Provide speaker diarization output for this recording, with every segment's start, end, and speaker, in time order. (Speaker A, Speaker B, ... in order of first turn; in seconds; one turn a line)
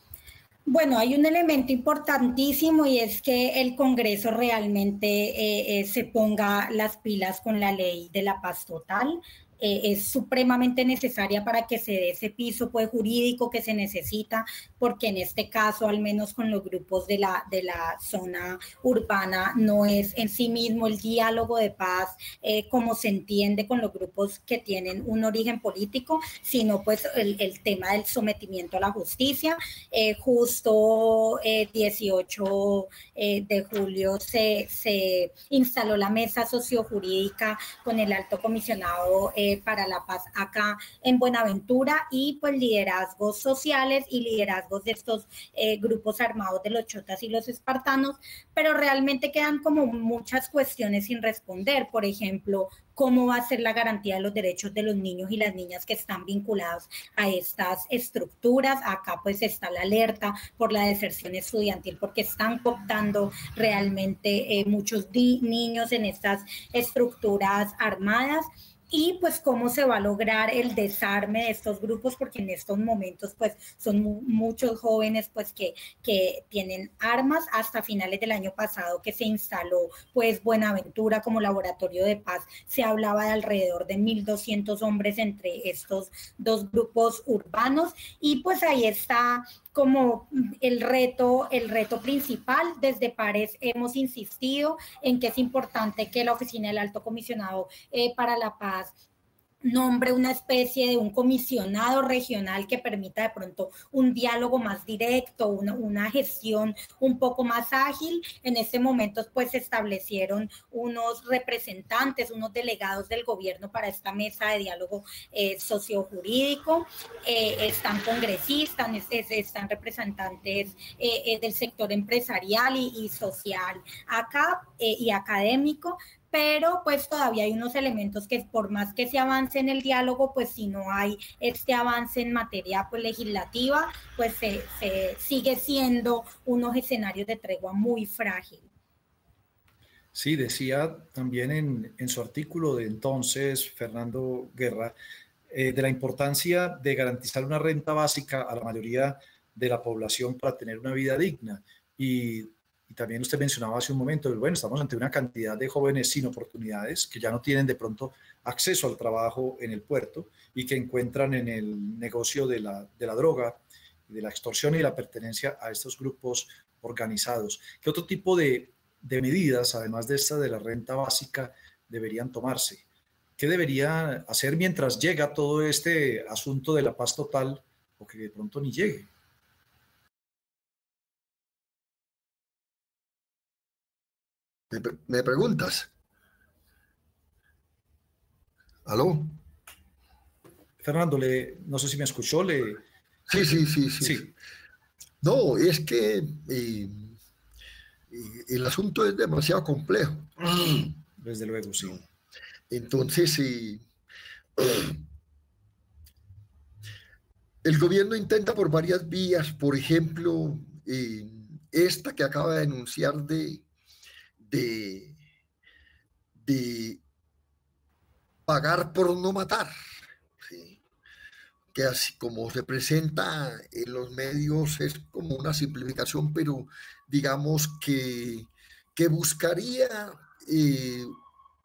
Speaker A: 0.7-98.9
Speaker A: 99.6-138.7
Speaker B: 140.1-144.9
Speaker B: 145.5-172.8
Speaker B: 173.4-179.1
Speaker C: 184.7-185.9
Speaker C: 188.9-189.4
Speaker B: 190.8-192.8
Speaker C: 193.3-194.3
Speaker B: 194.0-194.3
Speaker C: 195.2-197.2
Speaker C: 198.1-200.9
Speaker B: 201.2-202.0
Speaker C: 202.7-203.8
Speaker C: 204.6-205.0
Speaker C: 207.6-213.7
Speaker C: 214.4-215.2
Speaker C: 216.4-217.0
Speaker C: 218.5-219.7
Speaker C: 220.4-220.8
Speaker C: 221.7-231.1